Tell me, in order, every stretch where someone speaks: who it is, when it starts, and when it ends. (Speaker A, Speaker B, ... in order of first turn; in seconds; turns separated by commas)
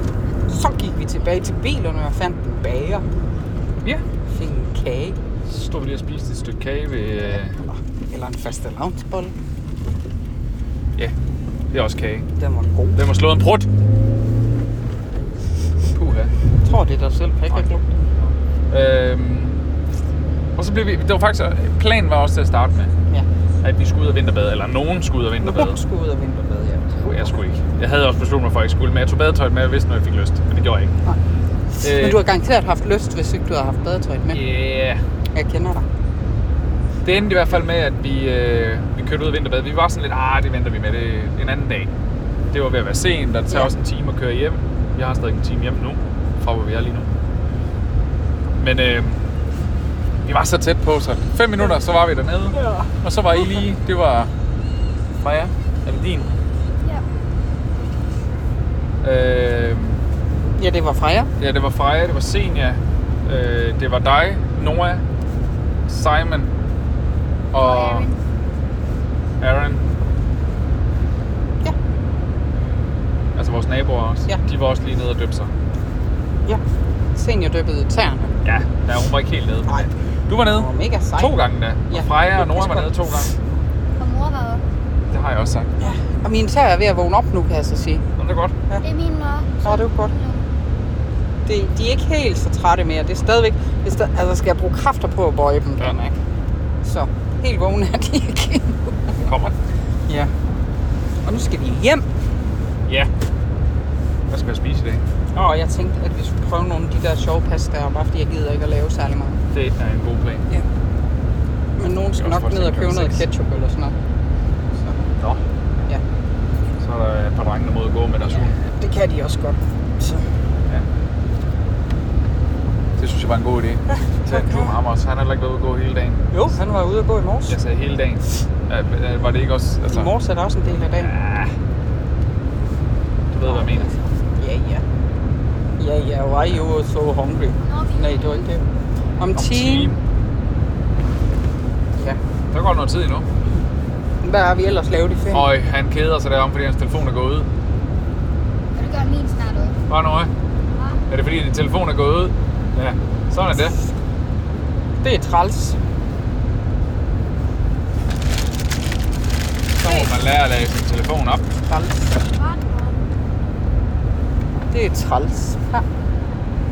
Speaker A: 0.5-3.0, Speaker A: 4.3-5.2, Speaker B: 5.5-7.6, Speaker A: 7.6-9.3, Speaker B: 11.7-12.3, Speaker A: 12.4-13.0, Speaker B: 12.9-13.7, Speaker B: 15.9-16.3, Speaker A: 16.6-17.9, Speaker B: 17.5-19.6, Speaker B: 20.6-22.9, Speaker B: 23.6-25.8, Speaker A: 25.4-27.4, Speaker B: 27.0-30.9, Speaker A: 31.8-34.4, Speaker B: 31.8-32.2, Speaker B: 34.3-35.0, Speaker A: 35.4-35.9, Speaker B: 37.0-41.9, Speaker B: 42.5-47.1, Speaker A: 43.5-43.8, Speaker B: 48.6-49.2, Speaker B: 50.2-54.3, Speaker A: 52.5-52.9, Speaker B: 55.2-56.3, Speaker B: 59.0-60.0, Speaker A: 60.6-61.3, Speaker B: 61.4-65.0, Speaker B: 65.9-66.5, Speaker B: 67.5-68.1, Speaker C: 67.6-68.2, Speaker B: 69.4-69.8, Speaker B: 73.3-75.5, Speaker A: 77.2-78.3, Speaker B: 78.4-83.3, Speaker A: 80.5-81.4, Speaker A: 81.9-83.3, Speaker C: 84.0-84.6, Speaker B: 85.1-85.7, Speaker A: 85.8-88.0, Speaker B: 88.2-88.5, Speaker C: 88.8-90.4, Speaker A: 89.6-90.1, Speaker A: 91.5-96.2, Speaker A: 96.8-99.3, Speaker B: 99.2-99.5, Speaker A: 101.2-102.1, Speaker B: 104.3-105.0, Speaker A: 105.3-109.4, Speaker B: 109.5-110.5, Speaker A: 111.8-114.0, Speaker B: 112.2-113.2, Speaker B: 116.8-118.6, Speaker A: 118.6-120.2, Speaker B: 123.0-126.4, Speaker A: 124.2-124.8, Speaker A: 126.3-127.6, Speaker B: 127.5-130.1, Speaker A: 129.9-131.1, Speaker B: 131.0-131.5, Speaker B: 133.3-133.9, Speaker A: 133.4-134.8, Speaker A: 135.8-138.6, Speaker C: 137.6-138.4, Speaker A: 139.2-139.9, Speaker B: 139.3-140.0, Speaker B: 142.5-143.3, Speaker A: 144.2-145.5, Speaker B: 145.3-147.5, Speaker C: 148.7-149.8, Speaker B: 149.9-150.3, Speaker C: 150.7-151.0, Speaker B: 151.1-153.8, Speaker A: 155.0-155.8, Speaker B: 159.8-161.4, Speaker A: 159.8-160.1, Speaker A: 161.7-162.2, Speaker C: 162.2-163.0, Speaker A: 164.7-165.9